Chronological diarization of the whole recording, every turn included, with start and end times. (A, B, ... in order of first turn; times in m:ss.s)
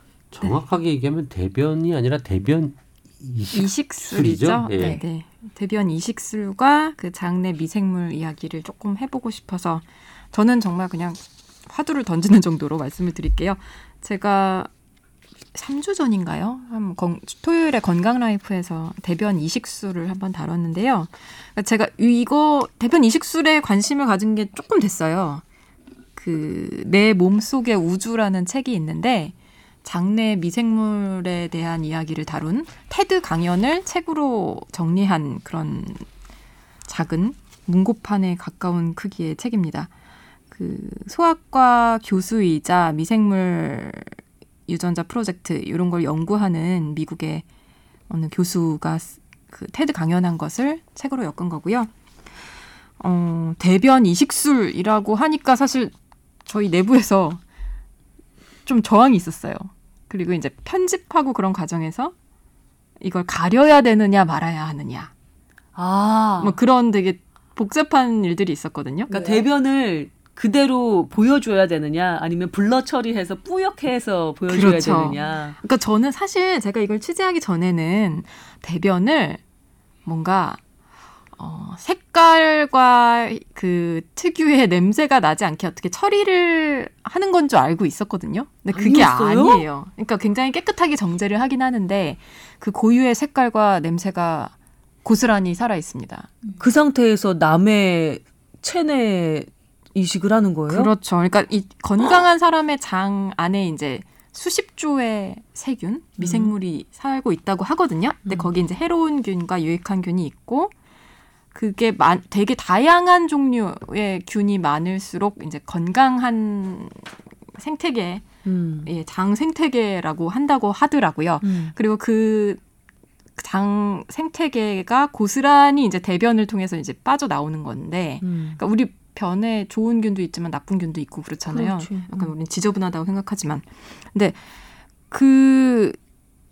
0:00.3-0:05.0 A
0:03.5-0:14.7 B
0:15.6-0:25.4 B
0:26.2-0:36.0 B
0:36.9-0:39.9 B
0:40.5-0:44.1 B
0:44.7-0:47.4 B
0:48.1-0:51.9 B
0:53.0-0:55.9 B
0:56.5-0:57.4 B
0:58.7-1:02.1 B
1:03.0-1:05.1 B
1:05.8-1:06.6 C
1:06.4-1:09.5 B
1:09.1-1:15.6 C
1:14.5-1:19.4 B
1:20.0-1:20.6 B
1:21.4-1:36.4 B
1:28.7-1:29.7 C
1:36.6-1:40.9 C
1:40.7-1:50.7 B
1:46.2-1:46.5 C
1:48.3-1:48.5 C
1:51.5-1:57.0 B
1:57.6-1:58.3 B
1:58.4-1:58.9 C
1:58.9-2:02.6 B
2:01.4-2:01.7 C
2:03.4-2:14.4 B
2:08.2-2:08.6 C
2:11.5-2:12.4 C
2:15.1-2:16.0 B